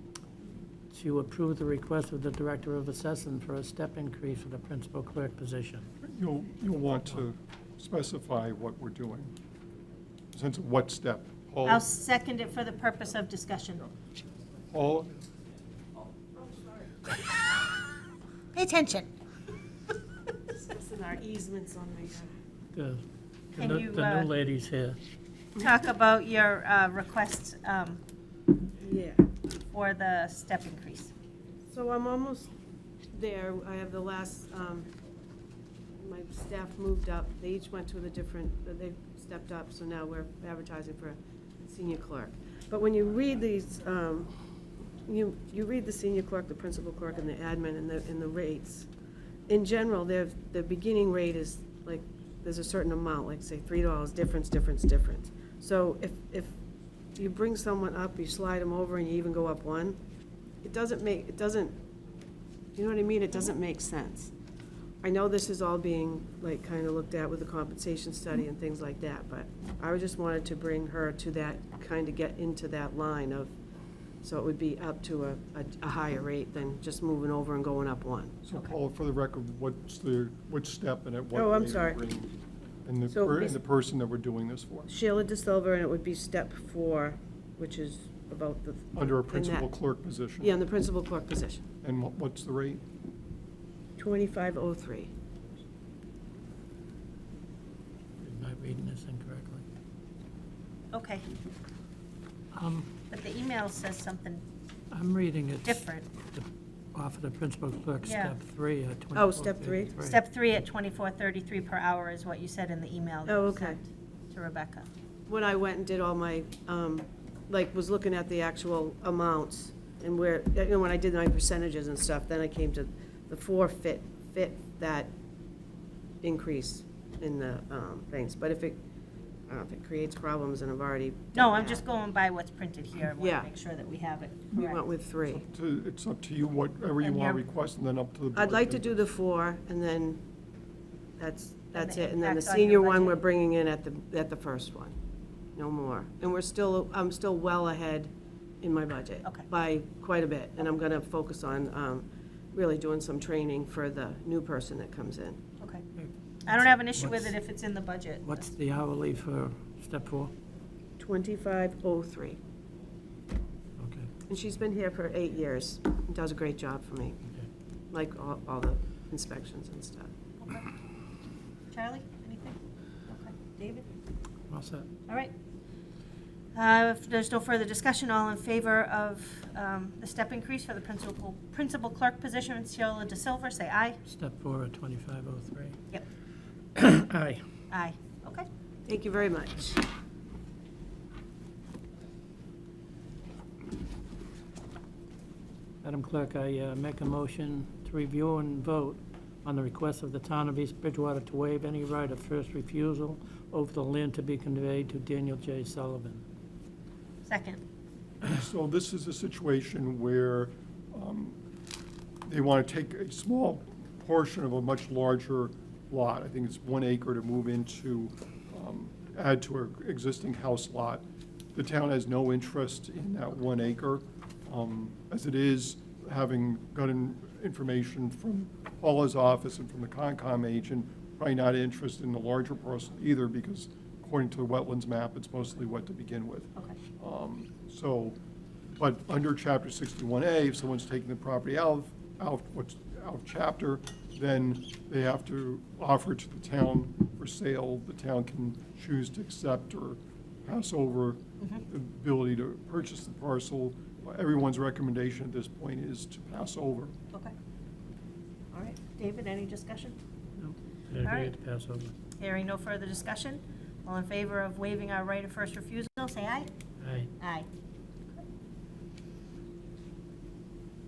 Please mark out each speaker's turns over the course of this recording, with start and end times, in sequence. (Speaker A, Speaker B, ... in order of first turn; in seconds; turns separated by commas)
Speaker A: 0.9-5.9, Speaker B: 6.0-9.3, Speaker B: 10.3-11.8, Speaker C: 11.7-13.9, Speaker B: 14.7-15.2, Speaker C: 18.5-19.1, Speaker D: 20.5-22.3, Speaker A: 22.7-25.0, Speaker C: 23.6-24.3, Speaker C: 25.6-28.0, Speaker D: 28.8-29.2, Speaker C: 29.7-31.1, Speaker D: 31.7-32.5, Speaker D: 33.1-34.9, Speaker D: 36.0-44.3, Speaker D: 45.0-48.9, Speaker D: 49.5-56.5, Speaker D: 57.1-60.0, Speaker D: 60.6-61.8, Speaker D: 62.8-64.3, Speaker D: 65.0-73.5, Speaker D: 74.2-78.4, Speaker B: 78.4-82.3, Speaker D: 81.3-82.0, Speaker B: 82.8-84.9, Speaker D: 83.1-83.6, Speaker D: 84.9-89.7, Speaker B: 88.9-90.5, Speaker D: 90.4-91.7, Speaker B: 91.8-92.8, Speaker D: 94.0-95.1, Speaker A: 98.2-99.6, Speaker C: 100.9-101.3, Speaker A: 102.5-102.9, Speaker C: 103.1-104.4, Speaker A: 104.9-110.2, Speaker C: 105.6-106.1, Speaker C: 108.0-108.3, Speaker D: 109.1-109.9, Speaker C: 110.0-114.9, Speaker D: 113.2-113.8, Speaker D: 115.3-125.1, Speaker D: 126.2-128.8, Speaker D: 129.5-131.8, Speaker C: 131.3-134.8, Speaker D: 133.2-133.5, Speaker D: 134.5-135.4, Speaker B: 135.3-139.0, Speaker C: 137.0-137.4, Speaker D: 138.3-140.2, Speaker D: 141.2-144.9, Speaker C: 141.7-143.2, Speaker D: 145.5-155.4, Speaker C: 155.6-155.8, Speaker A: 156.0-157.3, Speaker C: 156.4-158.5, Speaker A: 158.2-160.3, Speaker D: 161.0-162.4, Speaker A: 163.8-164.1, Speaker D: 164.3-167.2, Speaker D: 167.9-170.1, Speaker C: 170.4-170.7, Speaker C: 171.7-173.9, Speaker A: 174.5-174.9, Speaker C: 176.5-184.0, Speaker A: 184.1-185.8, Speaker A: 186.7-187.4, Speaker C: 187.7-188.4, Speaker D: 188.8-189.8, Speaker A: 195.8-206.2, Speaker C: 207.2-207.6, Speaker B: 208.2-211.4, Speaker B: 212.3-238.2, Speaker B: 238.8-256.9, Speaker C: 258.5-259.9, Speaker A: 260.4-261.9, Speaker C: 261.0-261.3, Speaker C: 262.2-266.5, Speaker A: 266.8-267.1, Speaker C: 267.2-267.5